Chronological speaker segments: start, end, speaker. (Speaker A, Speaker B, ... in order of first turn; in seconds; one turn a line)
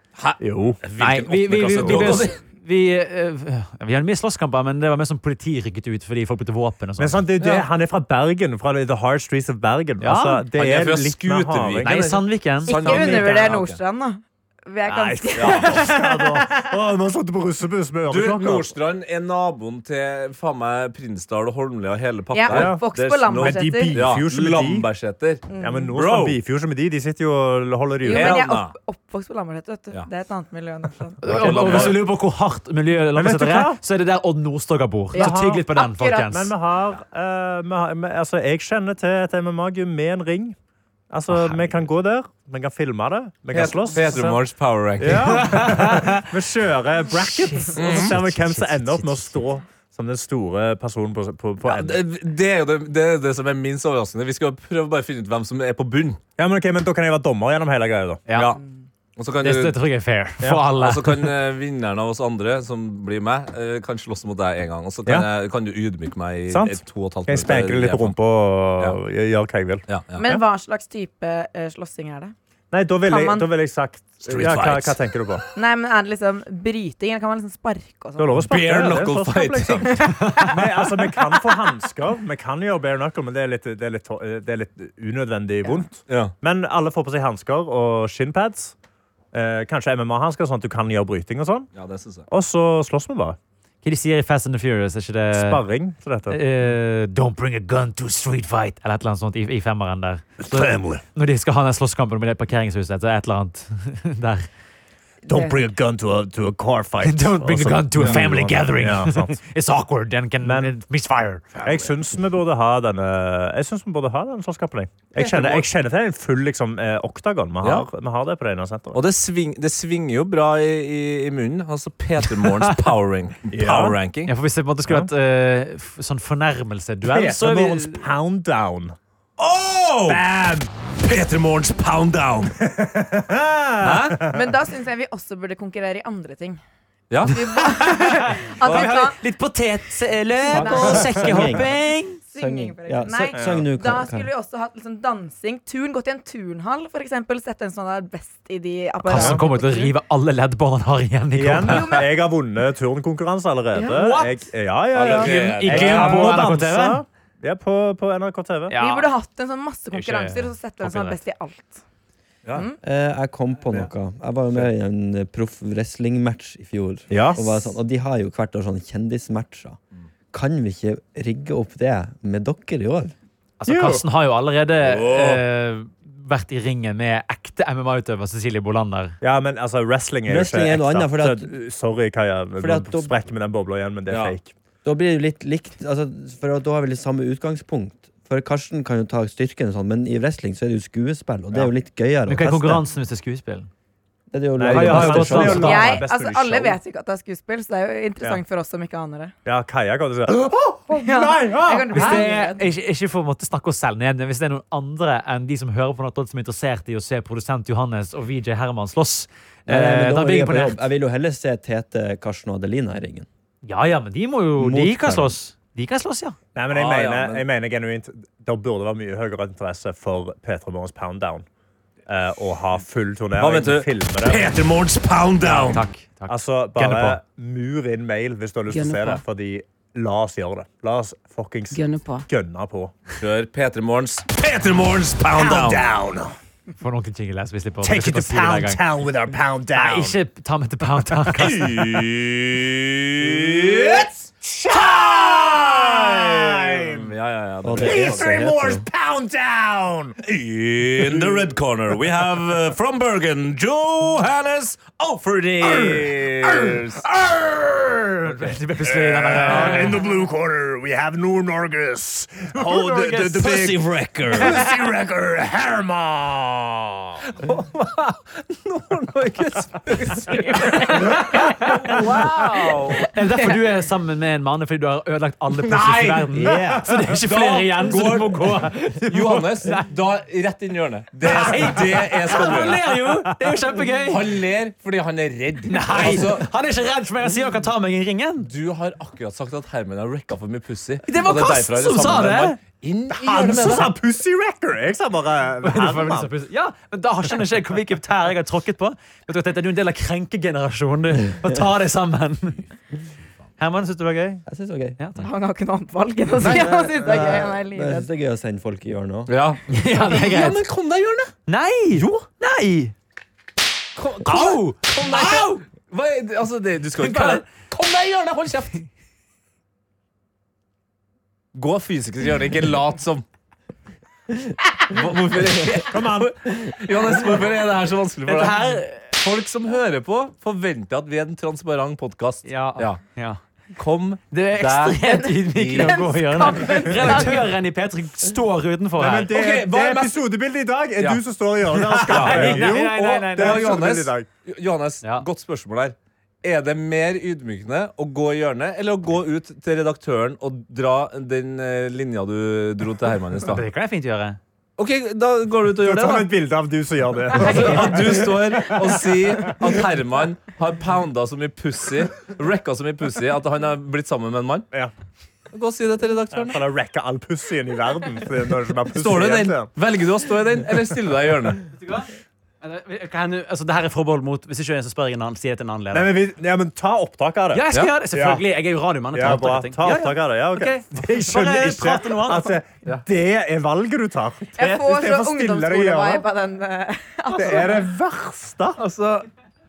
Speaker A: 0.2-2.4
Speaker B: 0.4-0.8
Speaker C: 1.0-7.2
Speaker B: 1.7-2.2
Speaker B: 7.0-11.9
Speaker A: 7.4-7.7
Speaker C: 10.0-10.4
Speaker A: 10.6-13.8
Speaker C: 11.8-12.8
Speaker D: 12.6-16.7
Speaker B: 12.8-13.5
Speaker B: 14.9-18.7
Speaker A: 15.3-15.8
Speaker A: 18.1-26.4
Speaker D: 22.3-24.0
Speaker B: 22.5-24.9
Speaker D: 25.5-25.9
Speaker B: 25.6-28.5
Speaker D: 28.0-31.7
Speaker A: 28.1-28.7
Speaker C: 31.2-36.5
Speaker A: 31.2-32.0
Speaker B: 31.3-31.9
Speaker B: 33.1-33.8
Speaker D: 35.1-36.3
Speaker B: 35.1-35.6
Speaker B: 36.3-40.5
Speaker B: 41.1-44.4
Speaker C: 41.3-41.8
Speaker A: 43.5-45.6
Speaker B: 45.0-52.0
Speaker C: 45.3-46.2
Speaker C: 47.3-49.4
Speaker A: 47.8-48.1
Speaker A: 51.6-56.2
Speaker B: 56.4-58.6
Speaker C: 58.3-58.5
Speaker A: 59.1-59.8
Speaker C: 59.4-61.2
Speaker A: 60.8-68.2
Speaker B: 66.5-70.4
Speaker A: 69.9-70.2
Speaker D: 70.2-72.3
Speaker B: 72.7-75.4
Speaker D: 73.0-73.5
Speaker A: 74.2-75.0
Speaker D: 75.5-78.4
Speaker B: 78.2-88.7
Speaker A: 78.5-80.0
Speaker D: 79.9-80.7
Speaker A: 86.1-86.3
Speaker B: 89.3-91.7
Speaker A: 91.7-92.3
Speaker B: 92.3-93.4
Speaker C: 93.8-95.6
Speaker B: 95.3-96.4
Speaker C: 96.3-104.5
Speaker B: 100.4-101.0
Speaker B: 105.2-109.4
Speaker C: 107.0-111.9
Speaker B: 110.4-110.7
Speaker B: 111.6-119.0
Speaker A: 115.2-115.6
Speaker A: 117.6-117.9
Speaker A: 118.9-124.3
Speaker C: 122.4-122.8
Speaker B: 123.5-124.0
Speaker C: 124.2-128.1
Speaker B: 127.0-128.9
Speaker A: 129.4-130.3
Speaker B: 130.1-130.7
Speaker A: 131.0-132.5
Speaker B: 132.6-134.5
Speaker A: 133.8-134.2
Speaker D: 134.3-136.6
Speaker A: 137.1-137.6
Speaker D: 137.2-139.2
Speaker C: 137.6-142.2
Speaker A: 138.6-138.9
Speaker E: 140.5-141.7
Speaker D: 140.5-141.5
Speaker D: 142.2-149.9
Speaker E: 142.3-144.3
Speaker B: 143.3-143.7
Speaker C: 149.0-151.9
Speaker B: 149.1-149.4
Speaker B: 151.3-158.8
Speaker D: 151.7-152.1
Speaker D: 153.7-154.1
Speaker C: 153.8-154.4
Speaker A: 154.9-156.5
Speaker C: 155.0-157.0
Speaker C: 158.7-159.1
Speaker D: 158.8-161.8
Speaker C: 159.9-161.2
Speaker E: 162.8-169.8
Speaker B: 167.1-167.7
Speaker E: 170.3-173.1
Speaker C: 173.6-179.2
Speaker B: 173.7-174.0
Speaker A: 174.8-175.4
Speaker B: 179.2-184.5
Speaker E: 180.2-181.5
Speaker E: 182.6-183.2
Speaker A: 184.1-184.3
Speaker E: 184.8-192.8
Speaker C: 192.3-193.7
Speaker E: 194.3-196.0
Speaker B: 194.6-196.8
Speaker C: 194.7-195.9
Speaker D: 195.6-199.3
Speaker B: 199.4-202.3
Speaker D: 200.9-202.7
Speaker C: 201.9-210.8
Speaker E: 209.7-213.3
Speaker C: 213.6-216.3
Speaker E: 214.6-215.3
Speaker B: 216.5-221.4
Speaker A: 216.7-217.4
Speaker B: 222.1-224.4
Speaker A: 223.4-225.8
Speaker C: 225.4-227.2
Speaker B: 225.5-232.9
Speaker A: 233.2-235.8
Speaker B: 235.3-236.3
Speaker C: 236.8-238.8
Speaker B: 237.8-240.2
Speaker C: 239.7-241.7
Speaker A: 241.3-244.1
Speaker B: 243.2-247.1
Speaker A: 244.7-248.3
Speaker E: 247.6-248.8
Speaker B: 247.8-250.2
Speaker A: 250.2-257.0
Speaker B: 251.0-251.5
Speaker B: 255.6-267.2
Speaker C: 258.2-260.0
Speaker A: 259.5-259.8
Speaker C: 262.6-263.3
Speaker A: 263.4-264.5
Speaker A: 267.4-273.0
Speaker C: 270.5-272.0
Speaker D: 270.6-271.0
Speaker B: 271.0-272.3
Speaker C: 273.0-279.9
Speaker A: 275.5-276.7
Speaker B: 276.4-276.8
Speaker A: 277.2-282.9
Speaker C: 281.2-284.2
Speaker A: 284.1-286.5
Speaker C: 285.7-288.5
Speaker A: 288.4-293.9
Speaker C: 291.0-292.6
Speaker B: 293.1-296.3
Speaker C: 295.6-302.6
Speaker C: 303.6-304.4
Speaker E: 304.5-305.0
Speaker C: 305.0-305.3
Speaker D: 305.2-308.1
Speaker E: 306.4-309.3
Speaker A: 306.4-306.7
Speaker A: 309.3-311.3
Speaker C: 309.7-310.6
Speaker C: 311.5-312.9
Speaker A: 313.9-318.8
Speaker C: 314.2-315.6
Speaker C: 317.0-317.4
Speaker A: 321.5-323.2
Speaker A: 324.9-333.0
Speaker B: 325.8-326.3
Speaker C: 328.2-329.1
Speaker C: 332.4-333.4
Speaker A: 333.8-336.1
Speaker C: 334.3-339.3
Speaker D: 335.1-337.5
Speaker B: 339.0-344.3
Speaker A: 339.3-340.2
Speaker C: 341.8-343.8
Speaker A: 341.9-353.6
Speaker C: 353.4-354.4
Speaker A: 354.8-356.3
Speaker B: 355.7-359.8
Speaker A: 357.3-364.7
Speaker A: 365.5-366.6
Speaker B: 366.3-369.7
Speaker A: 368.9-371.6
Speaker C: 371.8-372.1
Speaker C: 372.6-376.1
Speaker B: 375.9-378.4
Speaker C: 377.5-382.5
Speaker B: 379.1-386.3
Speaker D: 384.6-387.9
Speaker B: 387.3-388.8
Speaker A: 388.8-389.3